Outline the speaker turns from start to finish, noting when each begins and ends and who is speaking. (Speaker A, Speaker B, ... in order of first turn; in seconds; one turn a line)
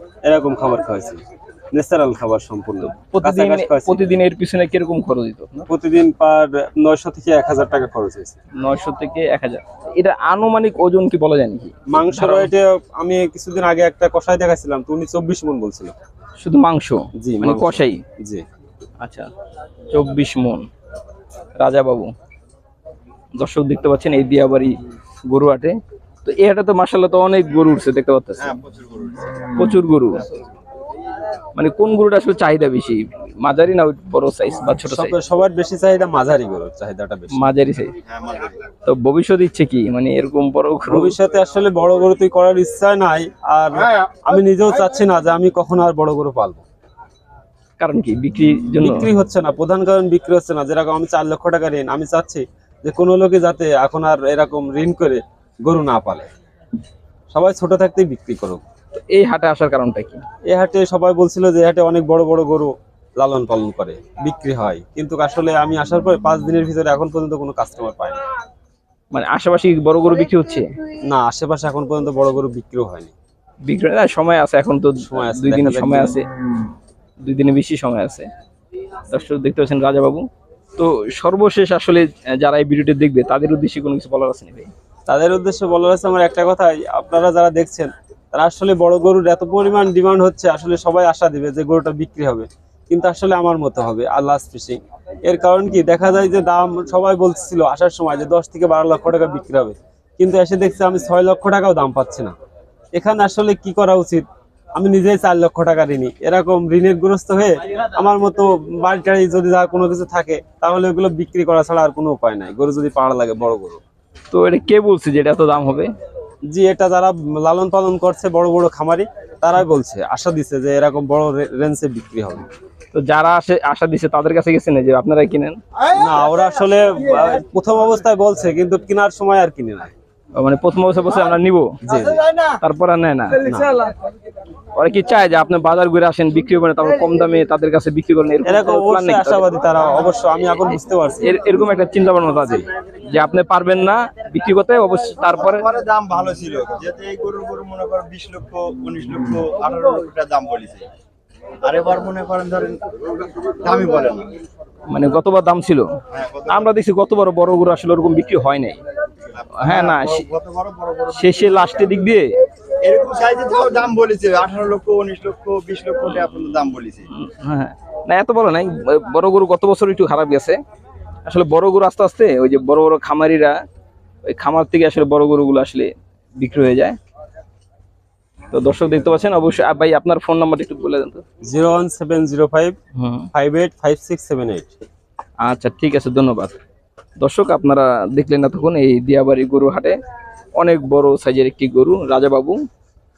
Speaker A: 0.2-1.2
Speaker A: 1.7-4.2
Speaker B: 2.8-5.7
Speaker A: 5.7-8.4
Speaker B: 8.6-12.5
Speaker A: 11.9-15.9
Speaker B: 16.4-18.0
Speaker A: 17.2-18.4
Speaker B: 19.0-19.3
Speaker B: 19.9-20.7
Speaker B: 21.6-22.1
Speaker B: 23.4-24.8
Speaker B: 25.3-28.6
Speaker C: 28.4-29.6
Speaker B: 29.6-30.3
Speaker B: 31.6-35.1
Speaker A: 34.8-37.5
Speaker B: 37.4-37.9
Speaker C: 38.1-38.6
Speaker B: 38.9-41.2
Speaker A: 40.9-46.6
Speaker B: 47.8-49.1
Speaker A: 48.8-56.2
Speaker A: 57.3-58.6
Speaker B: 59.0-60.2
Speaker A: 60.5-68.2
Speaker B: 69.1-70.7
Speaker A: 71.1-73.1
Speaker B: 73.7-76.2
Speaker A: 75.0-76.2
Speaker B: 77.2-78.3
Speaker B: 79.1-80.2
Speaker B: 80.8-84.7
Speaker A: 85.1-102.3
Speaker A: 102.9-113.8
Speaker B: 114.3-115.9
Speaker A: 116.5-122.5
Speaker B: 122.9-125.6
Speaker A: 125.9-129.9
Speaker B: 130.4-131.7
Speaker A: 131.8-132.2
Speaker B: 132.6-133.4
Speaker A: 133.4-133.8
Speaker B: 134.8-139.5
Speaker A: 138.4-141.7
Speaker B: 141.2-145.7
Speaker A: 142.3-142.7
Speaker C: 145.3-150.9
Speaker C: 151.6-154.3
Speaker B: 154.9-155.9
Speaker C: 156.1-156.7
Speaker B: 156.5-158.8
Speaker C: 159.3-161.9
Speaker B: 159.6-160.3
Speaker B: 161.1-162.3
Speaker C: 162.8-167.1
Speaker B: 166.1-170.6
Speaker B: 171.2-173.6
Speaker B: 174.3-177.0
Speaker B: 178.5-181.2
Speaker A: 181.4-182.8
Speaker B: 183.0-183.3
Speaker A: 183.3-184.7
Speaker B: 185.4-186.6
Speaker B: 187.2-190.0
Speaker B: 190.6-192.6